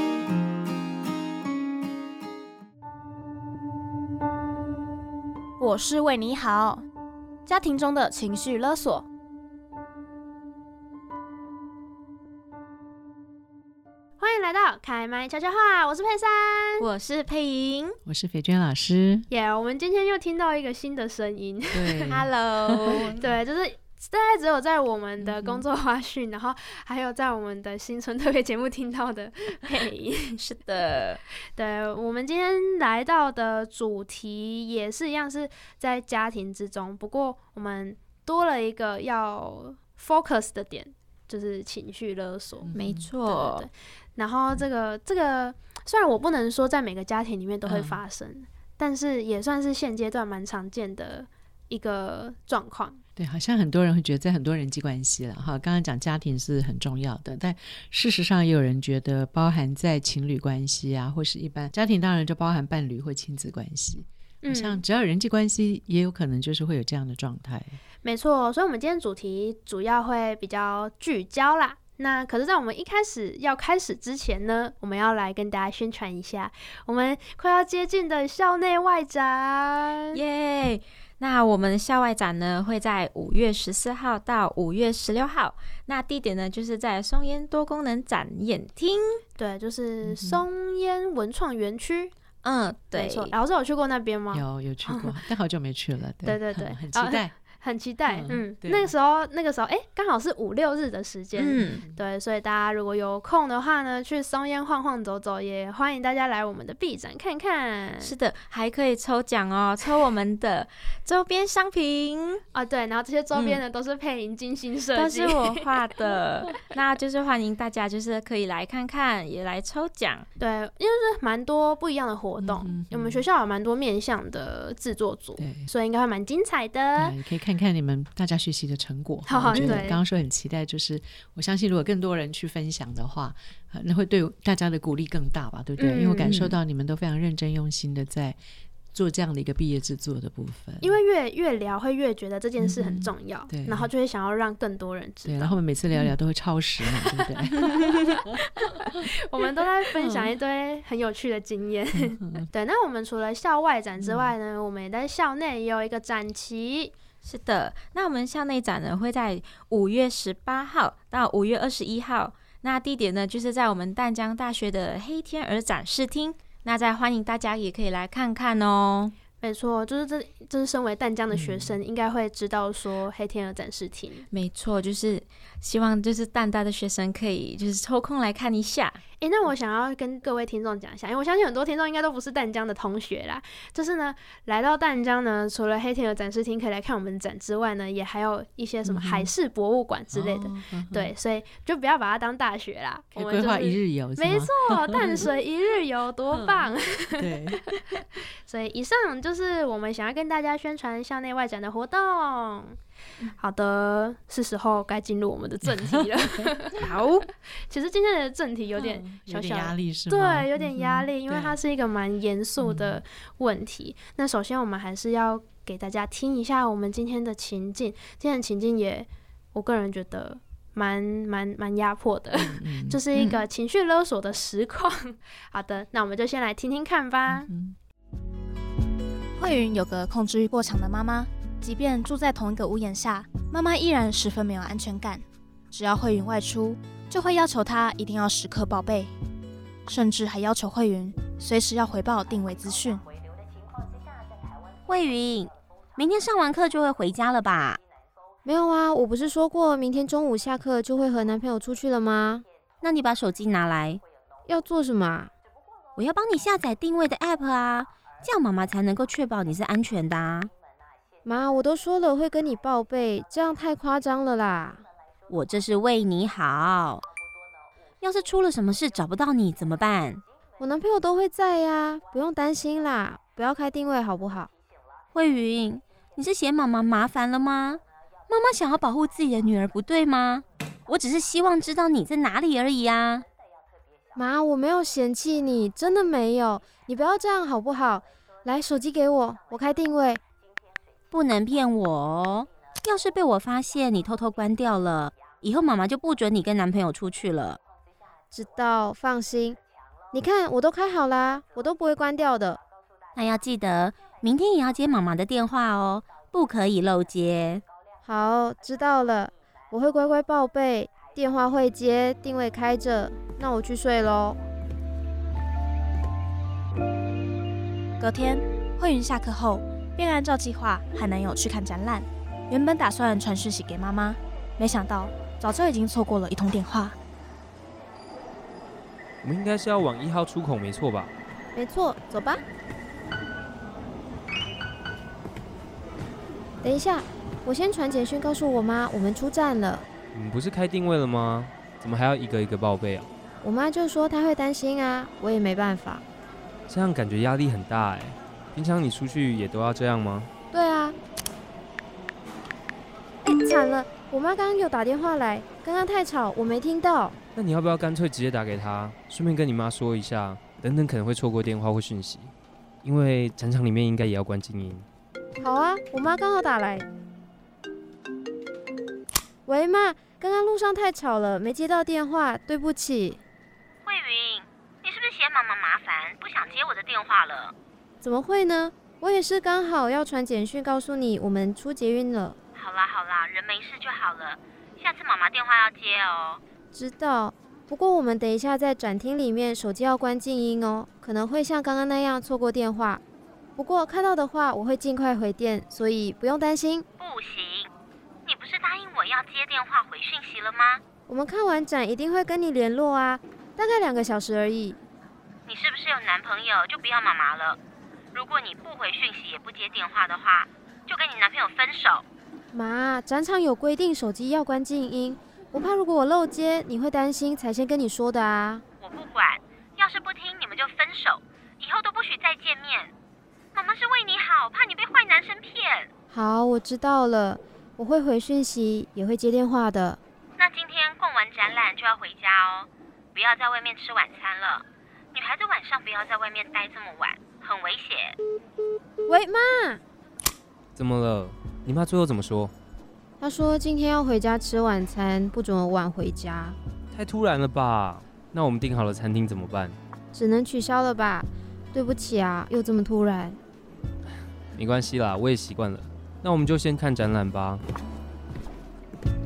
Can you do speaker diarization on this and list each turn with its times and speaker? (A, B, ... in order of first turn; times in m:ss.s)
0:05.6-0:06.8 A
0:07.5-0:09.1 A
0:14.2-0:16.9 B
0:16.8-0:18.0 C
0:18.1-0:19.3 D
0:19.3-0:22.1 B
0:21.7-0:23.0 D
0:22.1-0:23.2 C
0:22.9-0:30.4 B
0:30.4-0:31.2 C
0:31.6-0:42.7 B
0:42.6-0:43.1 D
0:42.8-0:43.7 C
0:43.2-0:53.0 B
0:47.6-0:48.0 D
0:53.2-1:07.8 D
1:04.4-1:04.8 B
1:08.0-1:20.2 B
1:20.1-1:29.2 C
1:29.4-1:32.1 B
1:30.0-1:30.4 D
1:32.4-1:33.3 C
1:32.9-1:35.2 B
1:34.3-1:37.3 D
1:36.2-1:48.1 B
1:38.1-1:38.9 D
1:41.4-1:41.8 C
1:41.6-1:42.0 D
1:48.0-1:52.4 C
1:52.5-1:55.8 B
1:54.9-2:00.3 C
2:00.4-2:07.2 B
2:02.6-2:03.2 D
2:05.4-2:05.7 D
2:07.0-2:18.4 D
2:09.3-2:10.0 B
2:09.5-2:09.8 C
2:15.8-2:16.6 B
2:18.9-2:21.0 D
2:20.8-2:25.6 B
2:22.6-2:23.9 D
2:25.3-2:28.3 D
2:27.8-2:36.9 B
2:31.9-2:32.5 D
2:34.0-2:34.3 D
2:37.2-2:49.1 C
2:49.4-2:54.3 B
2:51.3-2:51.8 D
2:54.3-2:59.0 C
2:59.2-3:17.8 B
3:08.8-3:09.3 D
3:10.1-3:11.1 D
3:13.1-3:15.3 D
3:16.3-3:17.8 D
3:18.5-3:22.8 B
3:23.4-3:26.8 B
3:26.8-3:27.3 C
3:27.6-3:47.5 B
3:28.8-3:31.6 D
3:32.6-3:33.0 D
3:42.3-3:43.0 D
3:43.2-3:43.4 C
3:47.3-3:47.8 D
3:49.4-3:59.1 A
3:59.9-4:03.0 A
4:04.9-4:07.8 E
4:08.4-4:12.4 F
4:12.8-4:14.0 E
4:14.5-4:15.3 F
4:16.0-4:20.5 E
4:21.2-4:24.8 F
4:25.3-4:27.0 E
4:28.0-4:30.2 E
4:30.6-4:34.5 F
4:35.1-4:43.2 E
4:44.2-4:50.2 F
4:51.1-4:57.6 E
4:58.3-4:59.6 F
5:00.1-5:02.6 F
5:03.2-5:07.6 E
5:08.0-5:14.4 F
5:18.0-5:27.0 A
5:29.2-5:31.1 G
5:31.6-5:32.4 F
5:36.6-5:39.9 F
5:40.1-5:43.1 G
5:43.4-5:46.0 F
5:46.7-5:50.3 G
5:50.5-5:51.0 F
5:53.2-5:57.2 F
5:57.4-6:02.3 G
6:02.8-6:04.9 G
6:05.4-6:06.9 F
6:09.5-6:13.2 F
6:13.8-6:17.5 E
6:18.0-6:22.4 F
6:22.6-6:26.4 E
6:26.7-6:33.0 F
6:33.6-6:36.9 F
6:37.0-6:37.7 E
6:38.3-6:40.8 E
6:41.1-6:44.8 F
6:45.5-6:47.6 E
6:48.1-6:52.0 E
6:52.5-6:58.6 F
6:58.8-7:02.9 E
7:03.5-7:05.9 E
7:06.1-7:10.0 F
7:10.4-7:18.2 E
7:19.1-7:19.8 F
7:20.8-7:22.5 G
7:23.2-7:26.6 F
7:26.9-7:29.8 G
7:30.1-7:33.4 F
7:34.6-7:37.6 G